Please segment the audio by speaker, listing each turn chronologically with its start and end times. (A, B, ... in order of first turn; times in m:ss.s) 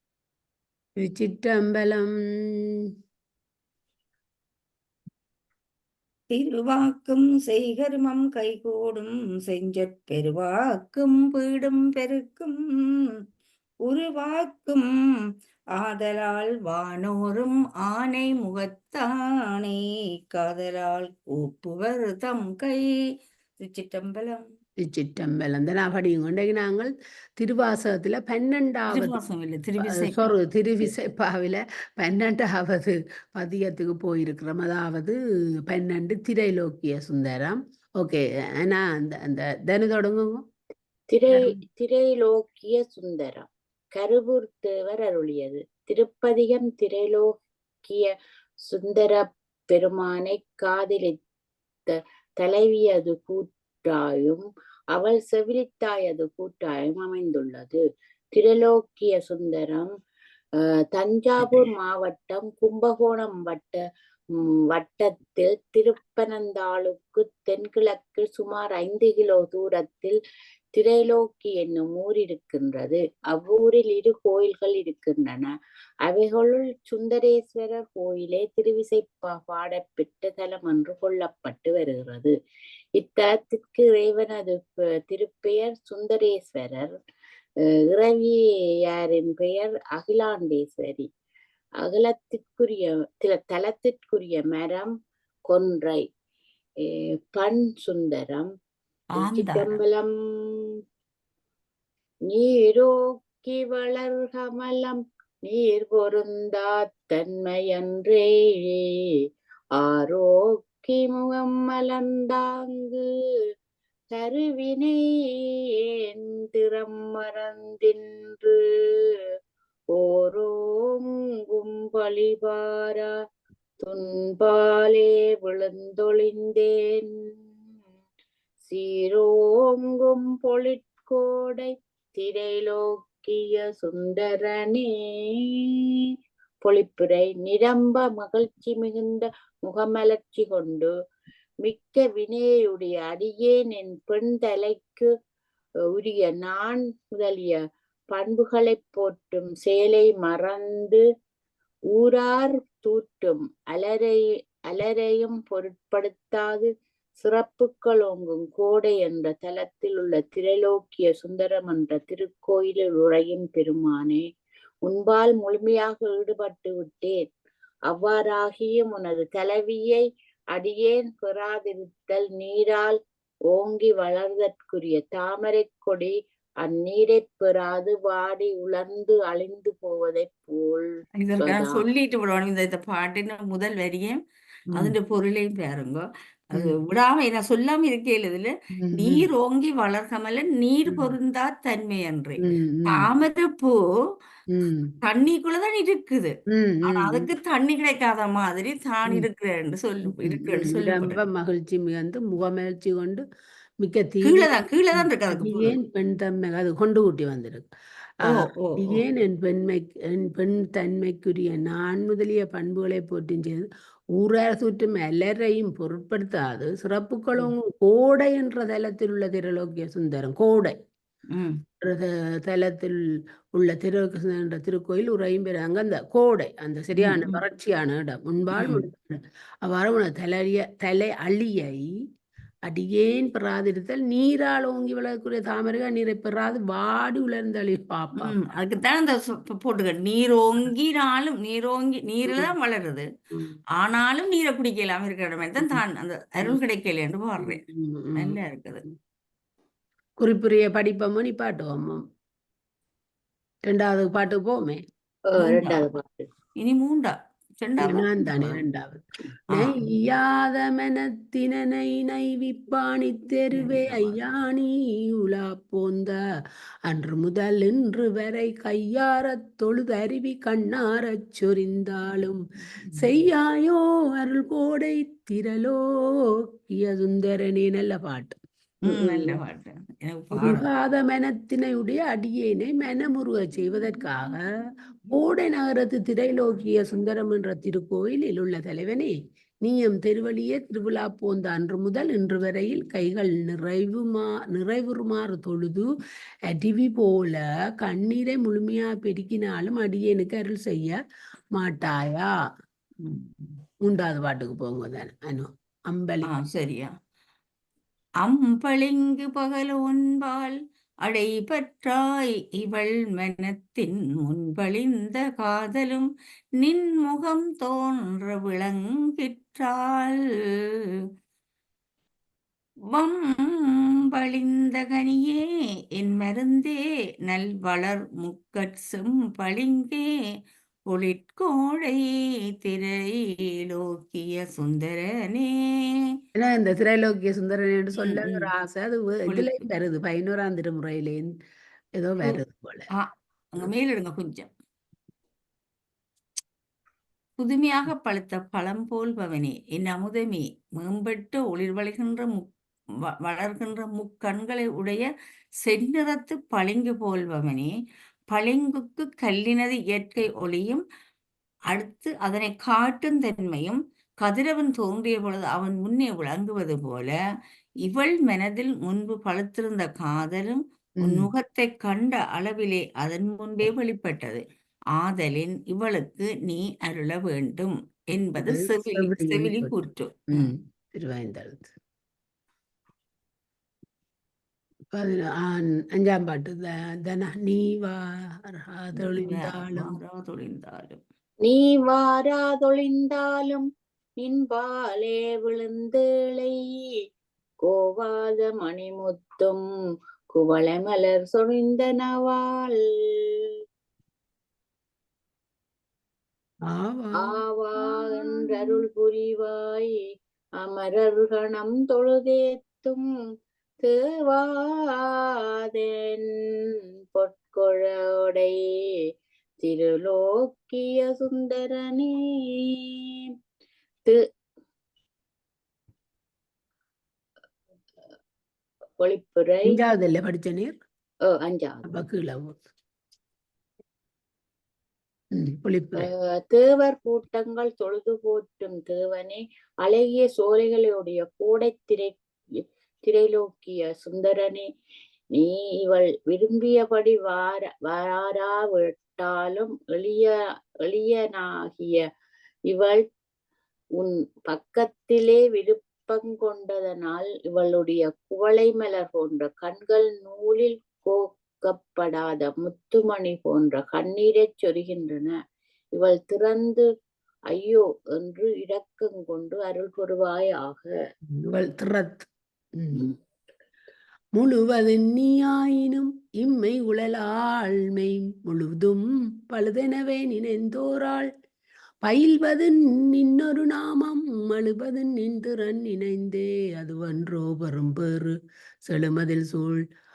0:01.0-0:02.1 A
0:06.3-0:13.1 B
0:13.9-0:14.9 B
0:15.8-0:19.8 B
0:20.3-0:22.8 B
0:23.6-0:24.4 B
0:24.8-0:29.2 A
0:28.9-0:30.3 B
0:29.8-0:35.2 A
0:35.7-0:40.4 A
0:41.1-0:47.3 C
0:47.8-0:48.1 C
0:48.6-0:51.2 C
0:51.9-0:54.4 C
0:55.0-0:57.8 C
0:58.4-0:59.9 C
1:01.0-1:03.8 C
1:01.4-1:01.7 B
1:04.4-1:10.2 C
1:10.7-1:15.5 C
1:16.1-1:22.3 C
1:23.0-1:26.9 C
1:27.8-1:31.1 C
1:31.8-1:34.9 C
1:35.5-1:36.0 C
1:36.8-1:38.5 C
1:39.2-1:39.8 B
1:39.2-1:40.7 C
1:42.3-1:48.9 C
1:49.8-1:53.1 C
1:54.2-1:55.5 C
1:56.1-1:58.6 C
2:00.0-2:03.1 C
2:03.8-2:07.1 C
2:08.7-2:15.8 C
2:16.6-2:20.9 C
2:21.6-2:25.1 C
2:26.0-2:27.6 C
2:28.1-2:31.0 C
2:31.9-2:44.2 C
2:44.9-2:47.2 C
2:47.9-2:50.0 C
2:50.6-2:53.0 C
2:53.5-3:00.9 C
3:01.2-3:04.2 B
3:01.4-3:01.8 C
3:04.7-3:13.8 B
3:08.8-3:09.3 A
3:12.4-3:13.1 A
3:14.5-3:14.9 A
3:15.0-3:16.3 B
3:16.5-3:17.3 A
3:16.9-3:21.2 B
3:20.2-3:23.2 A
3:23.8-3:27.7 A
3:24.2-3:25.8 B
3:28.2-3:40.8 A
3:28.2-3:29.0 B
3:41.3-3:41.6 B
3:41.8-3:43.0 A
3:43.6-3:51.8 A
3:47.0-3:47.4 B
3:48.6-3:48.8 B
3:52.7-3:58.4 A
3:58.2-4:03.0 B
4:02.3-4:02.5 A
4:03.3-4:03.6 A
4:03.8-4:07.6 B
4:07.4-4:08.4 A
4:08.2-4:08.8 B
4:10.2-4:12.0 A
4:13.7-4:14.8 A
4:15.3-4:16.3 C
4:15.4-4:15.9 B
4:16.6-4:18.6 B
4:17.8-4:26.2 A
4:19.5-4:19.8 B
4:23.5-4:24.2 B
4:26.9-4:32.4 A
4:33.0-4:35.8 A
4:36.6-4:39.4 A
4:38.8-4:40.7 B
4:40.4-4:44.4 A
4:45.1-4:55.9 A
4:56.5-5:01.0 A
5:01.5-5:02.3 A
5:03.0-5:03.6 B
5:03.8-5:06.3 A
5:06.3-5:06.9 B
5:08.2-5:16.1 B
5:16.6-5:20.2 B
5:22.9-5:25.4 B
5:26.0-5:26.8 B
5:27.3-5:30.1 B
5:30.9-5:32.1 B
5:32.6-5:36.1 B
5:36.4-5:41.3 A
5:38.0-5:38.5 B
5:39.3-5:39.7 B
5:42.0-5:42.9 A
5:43.0-5:44.5 B
5:47.4-5:52.5 B
5:53.2-5:55.0 B
5:55.6-5:57.7 B
5:58.3-6:00.8 B
6:01.7-6:07.1 B
6:07.9-6:14.4 B
6:11.0-6:11.3 A
6:15.0-6:20.5 B
6:18.4-6:19.8 A
6:20.3-6:21.7 A
6:24.9-6:29.9 A
6:29.0-6:31.0 B
6:31.4-6:33.6 C
6:34.2-6:36.6 C
6:37.7-6:39.6 C
6:40.3-6:43.4 C
6:46.7-6:47.4 A
6:47.2-6:49.9 C
6:47.9-6:48.8 A
6:50.6-6:53.0 C
6:53.8-6:56.3 C
6:57.1-6:58.5 C
6:59.6-7:03.0 C
7:09.0-7:09.8 C
7:09.7-7:10.8 A
7:11.3-7:11.9 C
7:11.8-7:12.6 A
7:15.4-7:16.1 A
7:16.0-7:22.2 C
7:23.0-7:24.7 C
7:25.4-7:30.3 C
7:30.8-7:32.0 C
7:32.7-7:33.0 C
7:34.0-7:45.4 C
7:46.0-7:46.8 C
7:47.5-7:50.9 C
7:51.4-7:53.0 A
7:54.4-8:01.3 A
8:02.0-8:08.3 A
8:08.8-8:09.8 A